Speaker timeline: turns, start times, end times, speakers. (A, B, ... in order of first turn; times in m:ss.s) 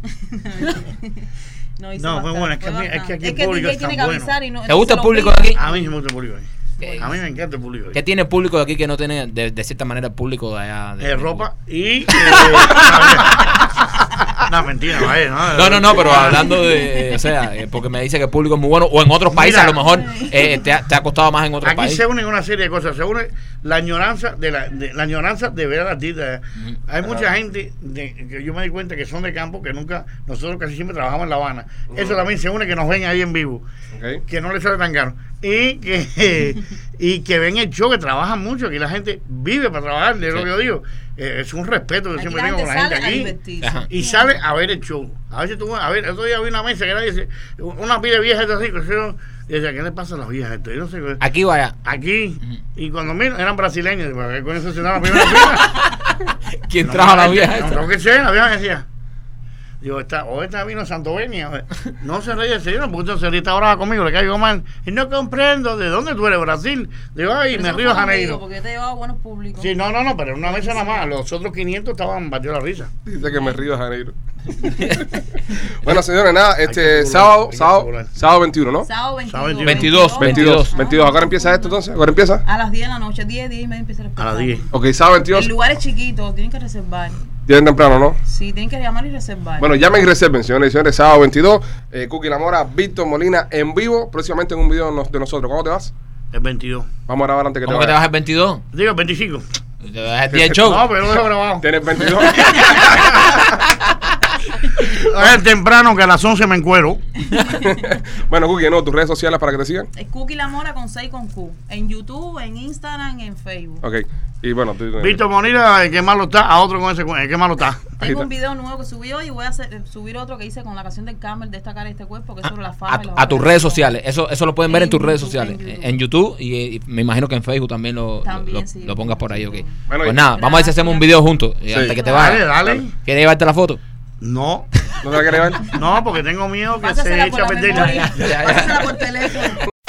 0:00.2-0:05.9 A
0:02.0-0:04.3 B
0:04.7-0:05.6 C
0:05.6-0:06.5 B
0:06.8-0:07.2 A
0:06.8-0:07.1 C
0:07.0-0:08.0 B
0:07.9-0:11.5 C
0:11.0-0:13.6 B
0:12.2-0:13.7 C
0:14.4-0:16.6 B
0:15.5-0:22.0 C
0:16.6-0:17.0 A
0:19.3-0:19.8 B
0:19.8-0:20.7 A
0:21.6-0:33.7 B
0:27.0-0:27.3 D
0:31.9-0:32.2 D
0:33.9-0:34.2 D
0:34.3-0:43.4 B
0:42.2-0:44.4 A
0:43.6-0:43.9 C
0:43.9-0:51.2 B
0:51.2-0:51.8 C
0:51.8-0:55.8 B
0:55.0-0:57.9 C
0:56.8-0:58.9 B
0:59.8-1:08.4 B
1:07.5-1:09.7 A
1:09.6-1:12.9 B
1:10.4-1:11.1 A
1:13.1-1:18.9 D
1:13.2-1:13.6 A
1:16.6-1:18.2 B
1:18.8-1:21.8 A
1:19.3-1:20.0 B
1:19.6-1:20.8 C
1:20.1-1:22.4 D
1:22.4-1:24.7 A
1:24.2-1:24.6 B
1:24.7-1:25.5 D
1:25.3-1:27.3 A
1:27.5-1:28.2 D
1:28.2-1:29.7 A
1:29.6-1:35.9 D
1:36.3-1:36.9 B
1:37.1-1:38.0 D
1:37.6-1:38.6 C
1:38.7-1:39.4 B
1:39.8-1:40.9 C
1:40.3-1:40.8 D
1:40.6-1:42.4 B
1:41.6-1:43.6 D
1:44.9-1:47.0 B
1:47.3-1:48.0 A
1:47.6-1:49.9 D
1:50.0-1:53.8 A
1:53.8-1:55.2 D
1:55.0-1:58.0 B
1:58.0-2:03.9 A
2:02.4-2:13.8 C
2:04.7-2:06.0 A
2:08.2-2:12.4 A
2:09.9-2:10.2 D
2:12.1-2:12.9 B
2:14.2-2:14.7 B
2:15.0-2:15.7 D
2:15.3-2:15.6 C
2:15.7-2:18.2 B
2:16.8-2:19.6 A
2:17.7-2:18.9 C